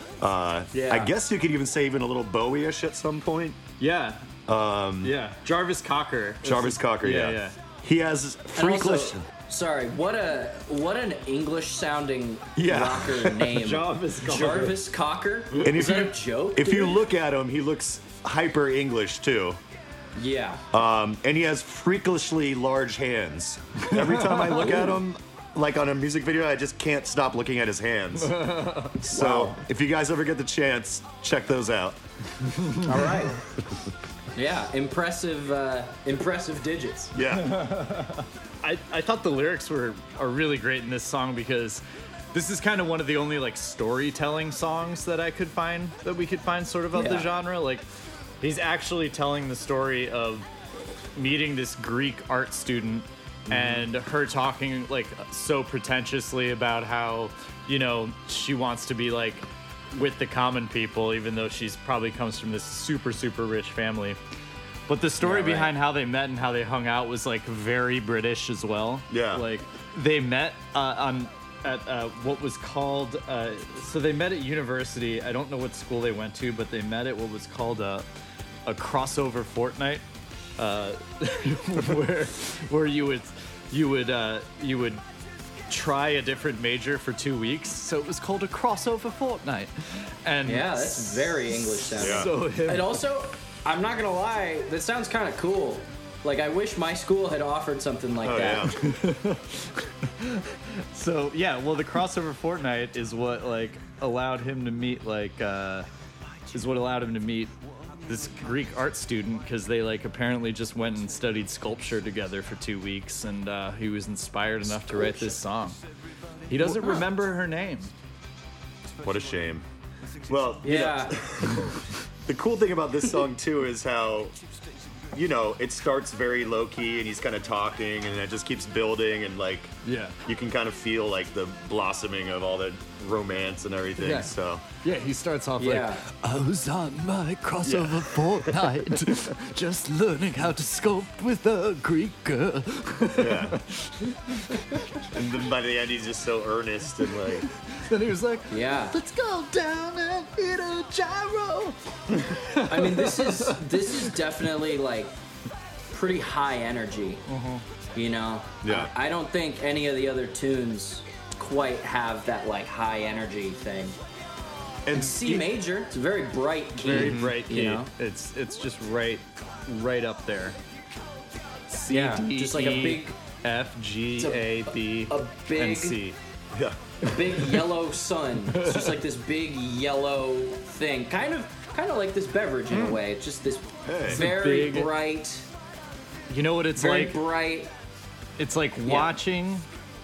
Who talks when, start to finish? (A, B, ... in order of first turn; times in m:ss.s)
0:00.2-0:03.6 A
0:00.7-0:01.1 B
0:03.8-0:04.3 C
0:04.5-0:05.2 A
0:05.0-0:07.6 C
0:06.4-0:09.2 A
0:08.5-0:17.0 B
0:12.6-0:13.6 A
0:13.5-0:14.8 C
0:15.6-0:19.6 A
0:20.1-0:20.6 B
0:20.7-0:32.0 A
0:23.9-0:24.8 C
0:28.2-0:29.0 C
0:29.0-0:29.6 B
0:32.4-0:32.9 C
0:32.8-0:33.4 B
0:34.3-0:37.1 B
0:37.1-0:37.6 A
0:37.3-0:41.8 C
0:42.3-0:47.8 C
0:46.9-0:47.3 B
0:48.4-0:50.4 C
0:51.2-1:04.2 C
0:53.5-0:53.9 A
1:04.9-1:18.1 C
1:05.2-1:05.7 B
1:09.1-1:09.4 A
1:18.6-1:20.0 C
1:20.6-1:25.0 C
1:25.7-1:33.0 C
1:30.4-1:38.7 B
1:32.0-1:32.3 A
1:38.2-1:38.8 A
1:38.7-1:45.9 C
1:46.5-1:47.5 C
1:48.0-1:55.8 C
1:54.9-1:55.3 B
1:56.5-1:57.9 C
1:56.6-1:57.1 B
1:59.0-1:59.6 A
2:00.3-2:04.4 A
2:00.6-2:01.2 B
2:05.1-2:09.7 A
2:09.8-2:10.2 C
2:10.2-2:14.6 A
2:14.0-2:24.8 C
2:15.6-2:16.0 B
2:17.6-2:18.7 A
2:23.2-2:23.6 A
2:25.0-2:27.5 A
2:27.5-2:34.2 C
2:28.5-2:29.0 B
2:32.6-2:35.1 B
2:35.9-2:37.2 B
2:37.3-2:37.6 C
2:37.9-2:44.0 B
2:38.6-2:38.9 A
2:44.8-2:45.5 A
2:44.9-2:47.9 B
2:46.8-2:50.6 C
2:46.9-2:47.3 A
2:51.7-2:56.2 C
2:51.9-2:53.2 B
2:54.2-2:56.0 B
2:57.0-2:57.7 C
2:57.0-3:05.5 B
2:58.5-2:59.0 C
3:03.8-3:04.2 A
3:04.1-3:04.9 C
3:06.3-3:07.2 C
3:06.8-3:07.7 B
3:08.4-3:09.6 C
3:08.8-3:09.1 B